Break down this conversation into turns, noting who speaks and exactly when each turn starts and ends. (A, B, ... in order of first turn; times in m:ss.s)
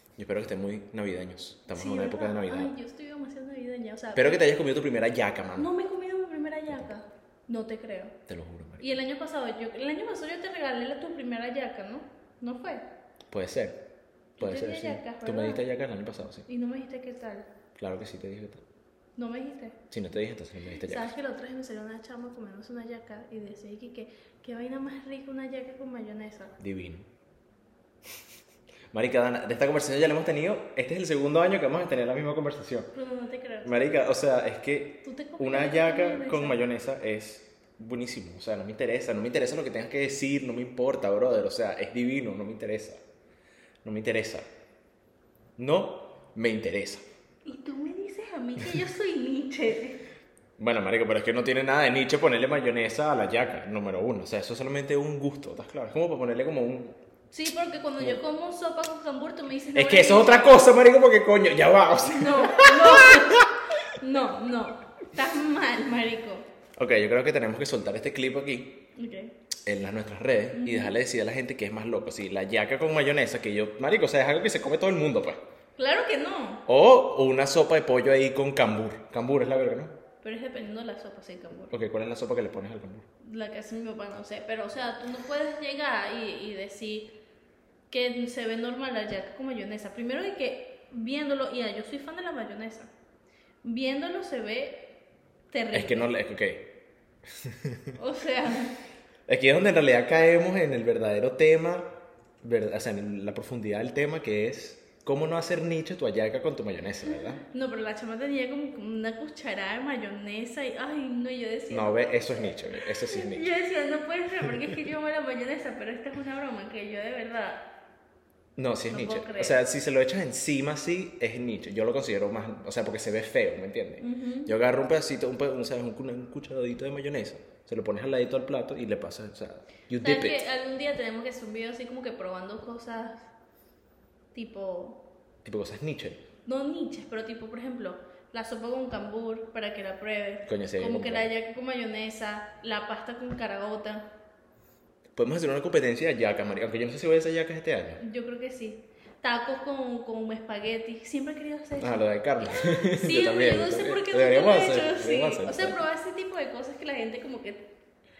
0:00.2-0:02.7 A
0:01.7-0:04.4 B
0:04.1-0:05.7 A
0:05.6-0:08.2 B
0:08.3-0:08.9 A
0:08.8-0:12.8 B
0:13.3-0:13.8 A
0:14.4-0:16.4 A
0:14.4-0:15.6 B
0:16.5-0:17.5 B
0:17.8-0:18.6 A
0:19.2-0:19.8 B
0:19.9-0:21.1 A
0:20.7-0:26.6 B
0:26.6-0:27.1 A
0:28.9-0:32.9 A
0:32.9-0:33.7 B
0:33.6-0:43.0 A
0:35.0-0:36.6 B
0:43.8-0:44.5 A
0:45.6-0:47.0 A
0:47.4-0:50.0 B
0:50.6-0:57.0 A
0:57.3-1:00.7 B
0:59.7-1:03.7 A
1:02.0-1:06.4 B
1:06.8-1:08.8 A
1:09.0-1:09.3 B
1:09.6-1:15.4 A
1:10.5-1:10.9 B
1:15.8-1:16.6 B
1:16.6-1:20.0 A
1:20.2-1:21.7 B
1:21.7-1:23.0 A
1:23.2-1:27.1 B
1:27.9-1:32.9 B
1:33.6-1:34.9 B
1:35.5-1:36.1 B
1:35.7-1:38.0 A
1:38.0-1:38.8 B
1:39.3-1:47.4 A
1:47.1-1:57.6 B
1:51.7-1:53.5 A
1:58.6-2:10.4 A
1:58.9-1:59.6 B
2:04.0-2:04.5 B
2:10.0-2:13.3 B
2:14.3-2:15.0 B
2:15.4-2:16.2 A
2:16.4-2:24.1 B
2:20.4-2:21.3 A
2:25.2-2:28.0 A
2:28.0-2:37.7 B
2:31.8-2:35.8 A